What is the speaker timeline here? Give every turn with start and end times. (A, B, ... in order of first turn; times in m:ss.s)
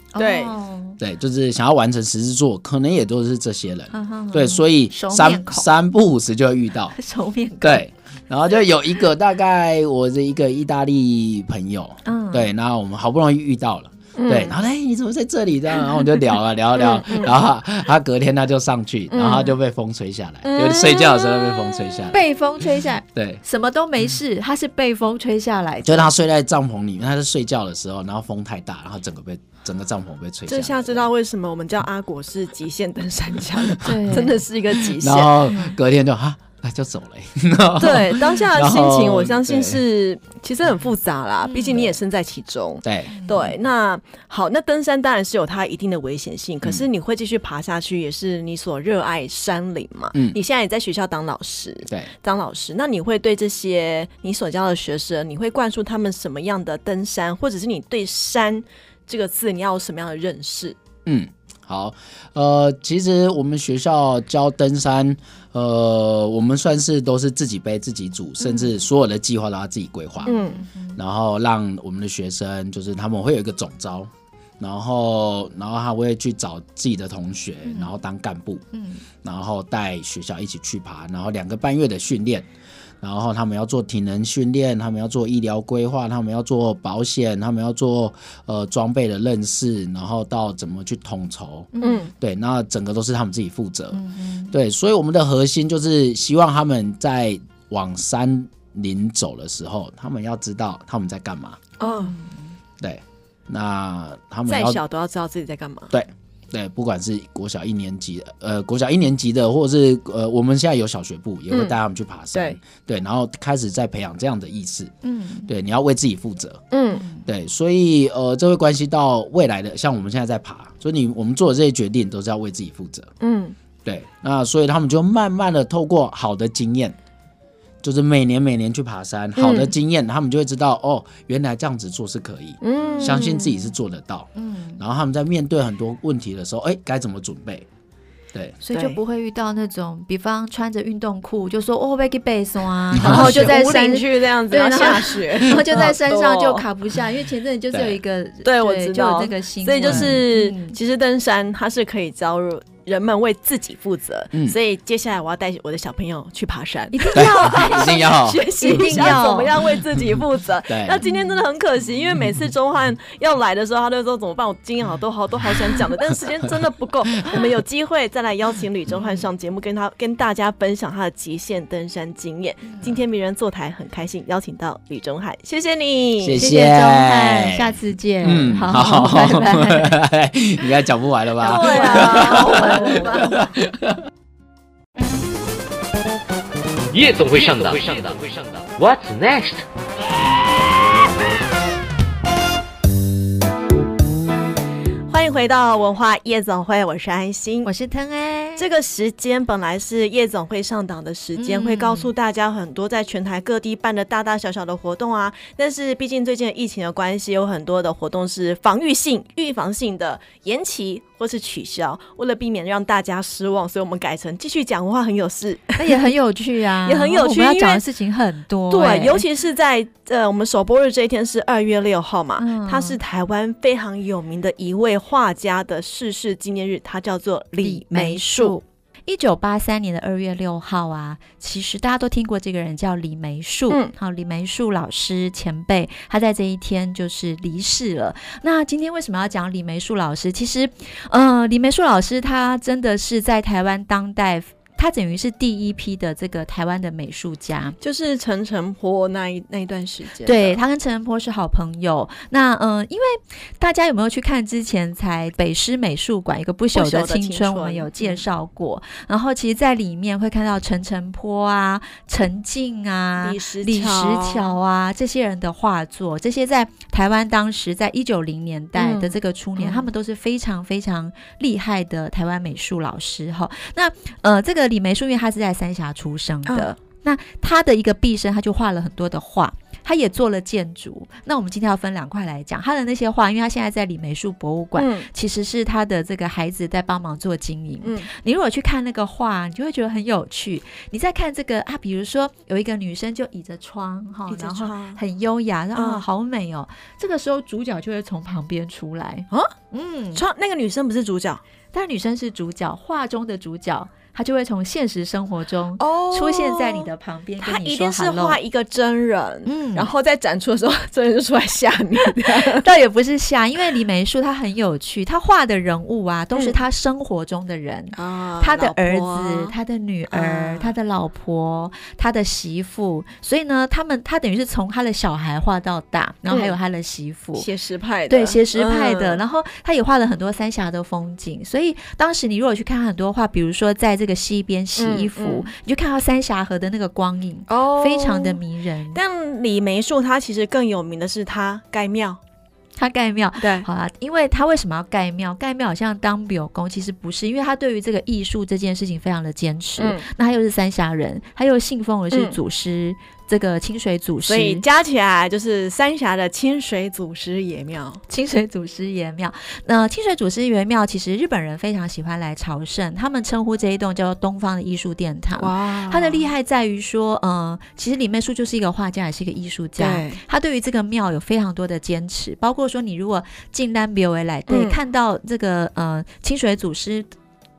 0:00.1-0:01.0 A
0:00.2-0:00.6 B
0:01.0-0:07.0 C
0:03.9-0:05.7 A
0:06.9-0:07.8 A
0:07.6-0:22.2 C
0:12.0-0:12.5 A
0:14.2-0:14.6 B
0:16.8-0:17.3 B
0:19.1-0:19.5 B
0:20.4-0:22.1 B
0:22.1-0:26.1 A
0:23.2-0:23.4 C
0:25.8-0:31.1 C
0:30.5-0:35.3 B
0:33.8-0:34.4 A
0:34.9-0:39.8 C
0:37.8-1:00.8 B
0:41.5-0:41.8 A
0:42.8-0:43.6 C
1:01.1-1:10.4 C
1:10.2-1:11.0 A
1:10.3-1:10.6 B
1:11.0-1:18.6 C
1:17.7-1:18.0 A
1:18.7-1:19.0 A
1:19.2-1:22.5 C
1:23.0-1:41.6 C
1:31.7-1:32.1 A
1:31.8-1:32.1 B
1:33.9-1:34.5 A
1:41.8-1:42.1 B
1:41.8-1:42.4 A
1:42.8-1:44.8 C
1:44.5-1:45.9 B
1:45.9-1:54.9 C
1:51.5-1:51.8 B
1:52.3-1:52.6 B
1:55.0-1:55.5 A
1:55.5-1:56.6 C
1:56.7-1:57.0 B
1:57.0-1:57.2 A
1:57.2-2:03.1 C
2:03.2-2:03.6 B
2:03.8-2:07.0 C
2:07.8-2:17.7 C
2:09.4-2:09.7 B
2:12.6-2:13.6 B
2:14.4-2:14.8 A
2:18.6-2:30.8 A
2:18.7-2:19.0 B
2:22.9-2:23.6 C
2:23.0-2:26.6 B
2:27.7-2:28.0 C
2:28.4-2:56.4 B
2:29.9-2:30.1 C
2:36.9-2:38.0 A
2:37.1-2:39.2 C
2:38.6-2:39.5 A
2:40.7-2:41.0 C
2:41.0-2:41.4 A
2:52.7-2:53.0 A
2:56.2-3:04.0 C
2:56.4-3:00.0 A
3:01.4-3:03.3 B
3:01.4-3:03.4 A
3:06.9-3:09.6 D
3:07.6-3:08.0 B
3:15.1-3:17.7 B
3:17.6-3:18.7 A
3:18.6-3:36.1 B
3:21.4-3:22.1 A
3:35.8-3:39.2 A
3:36.8-3:37.8 B
3:38.7-3:48.6 B
3:42.4-3:43.0 A
3:47.6-4:07.8 A
3:53.7-3:53.9 B
4:07.8-4:10.6 B
4:10.2-5:00.2 A
4:16.7-4:18.2 B
4:23.2-4:24.5 B
4:28.8-4:29.9 B
4:36.5-4:36.7 B
4:44.8-4:45.1 B
4:47.8-4:48.1 B
4:54.3-4:55.0 B
4:55.8-4:56.0 B
5:00.2-5:01.4 B
5:01.7-5:08.4 A
5:05.8-5:06.9 B
5:07.4-5:12.6 B
5:09.5-5:09.9 A
5:12.4-5:27.5 A
5:17.9-5:19.6 B
5:20.1-5:20.7 B
5:26.3-5:26.6 B
5:27.4-5:29.2 B
5:28.1-5:39.0 A
5:34.8-5:35.5 B
5:37.5-5:38.4 B
5:38.9-5:42.2 B
5:42.8-5:54.6 A
5:43.4-5:43.7 B
5:49.8-5:50.1 B
5:52.1-5:52.4 B
5:54.3-5:58.0 B
5:58.1-6:17.1 A
6:05.4-6:06.3 B
6:09.8-6:10.2 B
6:14.5-6:14.8 B